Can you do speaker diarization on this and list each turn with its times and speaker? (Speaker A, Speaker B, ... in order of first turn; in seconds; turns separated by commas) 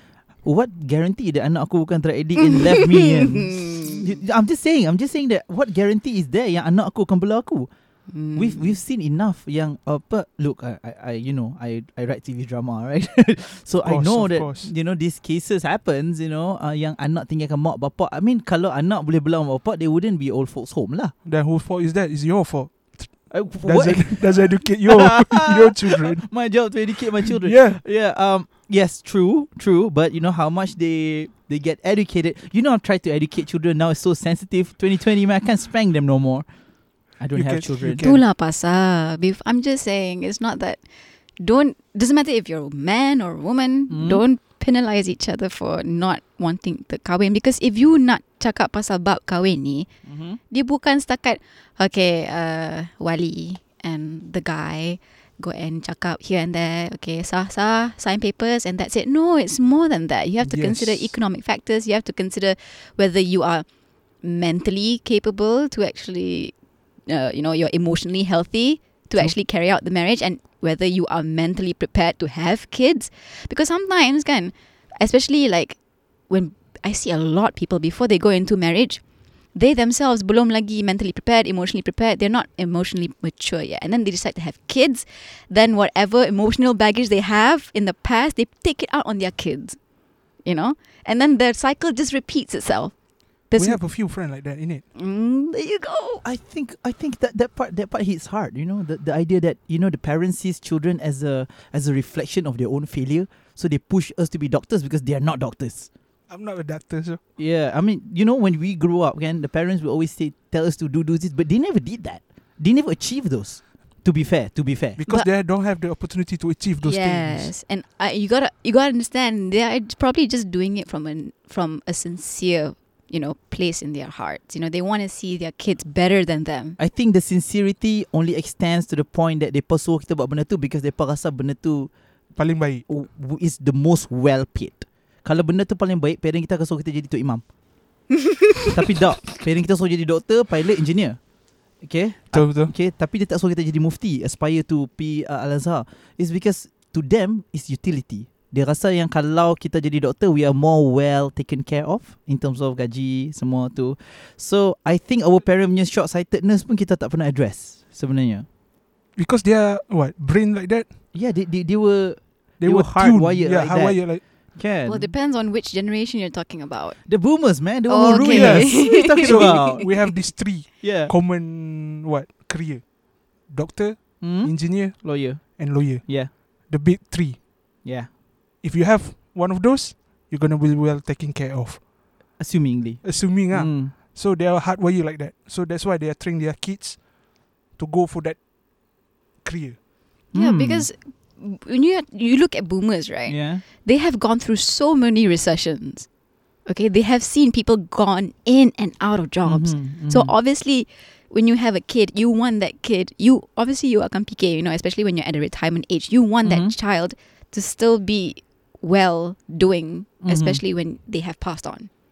Speaker A: 0.4-7.7, Speaker B: 2.5-4.0, Speaker B: 8.1-8.8, Speaker A: 8.3-21.1, Speaker C: 13.8-14.7, Speaker C: 21.2-26.3, Speaker A: 23.3-38.0, Speaker C: 27.2-27.8, Speaker C: 37.3-38.2, Speaker B: 38.0-40.8, Speaker B: 41.4-49.9, Speaker A: 43.9-44.2, Speaker A: 50.0-50.4, Speaker B: 50.4-63.7, Speaker C: 60.4-61.1, Speaker B: 64.2-66.5, Speaker B: 67.1-89.8, Speaker B: 90.4-93.0, Speaker B: 93.5-93.8, Speaker C: 93.5-94.8, Speaker B: 94.9-96.2, Speaker A: 96.2-105.9, Speaker C: 106.3-107.2, Speaker A: 107.4-115.1, Speaker C: 115.0-117.5, Speaker B: 116.8-126.8, Speaker A: 126.8-131.9, Speaker C: 132.3-132.8, Speaker A: 132.9-137.4, Speaker A: 138.7-141.2, Speaker A: 141.8-158.4, Speaker C: 142.3-142.7, Speaker C: 159.2-160.9, Speaker A: 161.1-165.1, Speaker C: 162.6-164.2, Speaker B: 164.8-167.2, Speaker A: 167.0-169.9, Speaker B: 167.9-170.1, Speaker C: 168.2-177.5, Speaker A: 170.8-171.1, Speaker A: 174.2-176.3, Speaker A: 177.8-178.1, Speaker C: 178.6-181.9, Speaker A: 182.4-183.9, Speaker C: 183.0-187.1, Speaker C: 187.7-188.4, Speaker C: 189.4-189.8, Speaker A: 190.3-190.9, Speaker B: 190.3-196.1, Speaker A: 193.3-193.6, Speaker B: 196.7-211.9, Speaker A: 199.4-200.3, Speaker A: 206.4-206.7, Speaker A: 210.2-210.6